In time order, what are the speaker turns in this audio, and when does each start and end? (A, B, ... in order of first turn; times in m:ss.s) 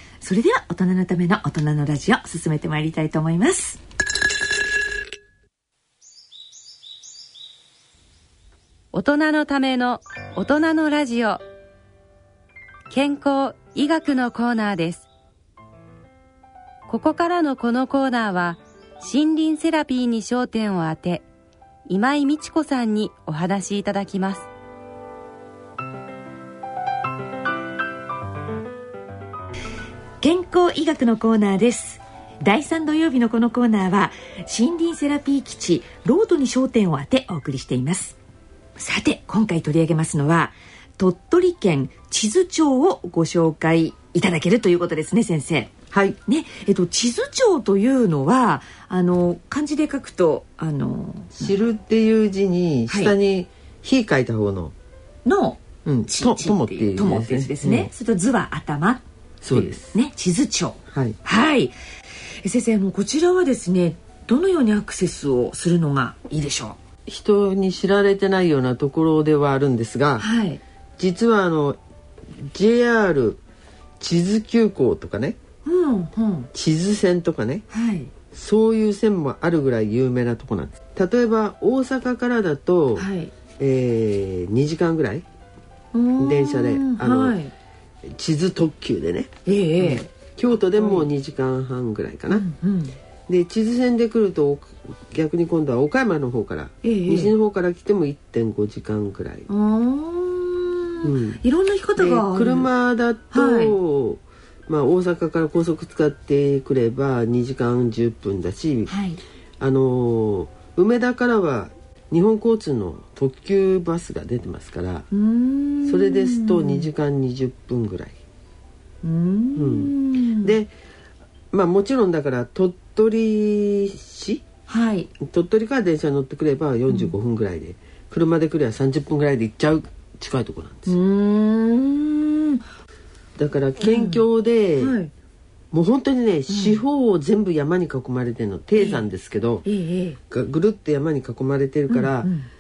0:00.2-0:03.8 A
0:08.9-0:11.4 B
0:12.9-0:15.0 B
0:16.9-0:21.2 B
0:21.9-0:24.5 B
0:30.2-0:38.2 A
0:38.8-0:45.7 A
0:45.9-0:46.2 C
0:46.2-0:51.5 A
0:51.4-0:54.7 C
0:52.9-0:53.1 A
0:55.2-1:01.7 A
0:55.8-0:57.9 C
0:59.4-0:59.9 C
1:00.9-1:01.2 C
1:02.4-1:06.8 A
1:07.1-1:10.2 C
1:10.2-1:10.6 A
1:11.0-1:11.8 C
1:12.4-1:13.4 C
1:14.0-1:15.4 C
1:15.6-1:16.5 A
1:16.5-1:17.6 C
1:17.7-1:18.1 A
1:18.3-1:23.1 C
1:23.0-1:23.3 A
1:23.6-1:25.2 C
1:25.9-1:27.5 A
1:26.2-1:27.4 C
1:28.0-1:32.4 C
1:29.4-1:30.1 A
1:30.7-1:31.1 A
1:32.3-1:33.0 A
1:33.3-1:39.5 C
1:36.8-1:37.3 A
1:39.5-1:42.7 A
1:41.0-1:41.4 C
1:42.0-1:48.9 C
1:43.3-1:43.8 A
1:48.9-1:49.2 A
1:49.6-1:55.0 C
1:55.1-1:56.9 A
1:55.8-1:58.2 C
1:59.0-2:00.6 A
1:59.6-2:00.7 C
2:01.5-2:04.4 C
2:04.7-2:05.1 A
2:05.2-2:11.0 C
2:10.9-2:12.6 A
2:13.4-2:15.0 C
2:13.8-2:14.2 A
2:14.8-2:15.1 A
2:15.7-2:19.6 C
2:16.5-2:16.8 A
2:18.8-2:19.0 A
2:19.6-2:20.2 A
2:20.3-2:22.3 C
2:21.9-2:22.5 A